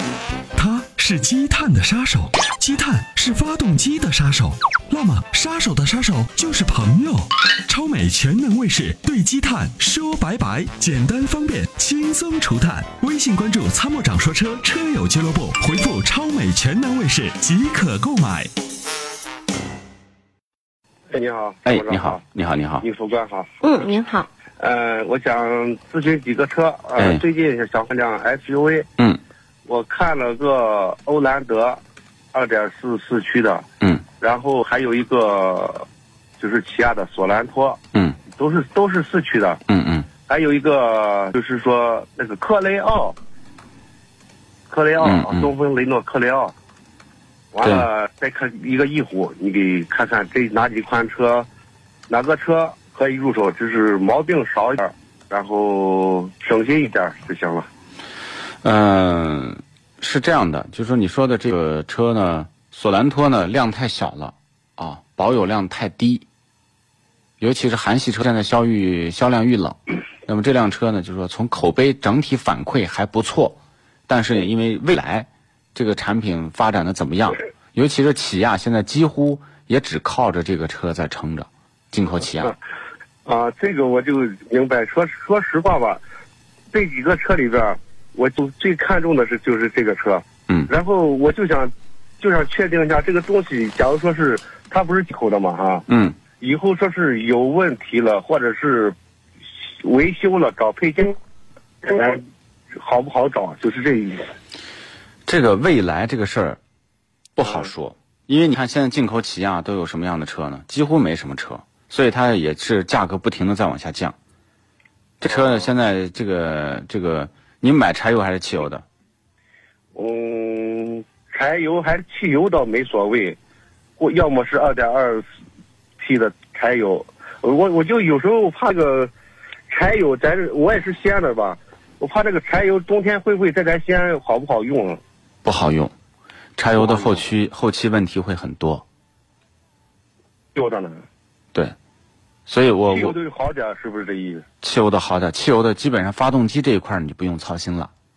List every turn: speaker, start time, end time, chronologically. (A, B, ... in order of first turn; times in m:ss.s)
0:00.5-0:18.5 A
0:21.1-0:22.2 B
0:21.6-0:22.8 C
0:22.8-0:23.5 B
0:24.5-0:28.9 B
0:27.0-0:27.2 C
0:29.6-0:31.8 B
0:32.3-0:33.6 B
0:34.2-0:35.9 B
0:36.4-0:39.6 B
0:39.7-0:40.1 C
0:40.3-0:43.2 B
0:44.7-0:46.5 B
0:45.0-0:45.5 C
0:47.5-0:51.5 B
0:47.6-0:47.9 C
0:52.1-0:57.7 B
0:58.6-1:06.2 C
1:07.4-1:22.5 C
1:23.2-1:26.0 B
1:26.7-1:35.9 B
1:35.9-1:36.2 C
1:36.4-1:39.0 B
1:39.6-1:41.2 B
1:41.8-1:42.2 B
1:42.8-1:44.3 B
1:45.3-1:46.6 C
1:47.4-1:54.1 C
1:47.4-1:47.7 B
1:55.2-1:58.8 C
1:55.3-1:55.7 B
1:59.9-2:03.4 B
2:04.0-2:05.2 B
2:06.0-2:09.1 B
2:09.7-2:15.0 B
2:15.4-2:15.9 C
2:16.6-2:18.8 C
2:16.8-2:17.2 B
2:20.5-2:21.0 B
2:22.5-2:23.2 C
2:22.9-2:24.4 B
2:24.6-2:27.9 C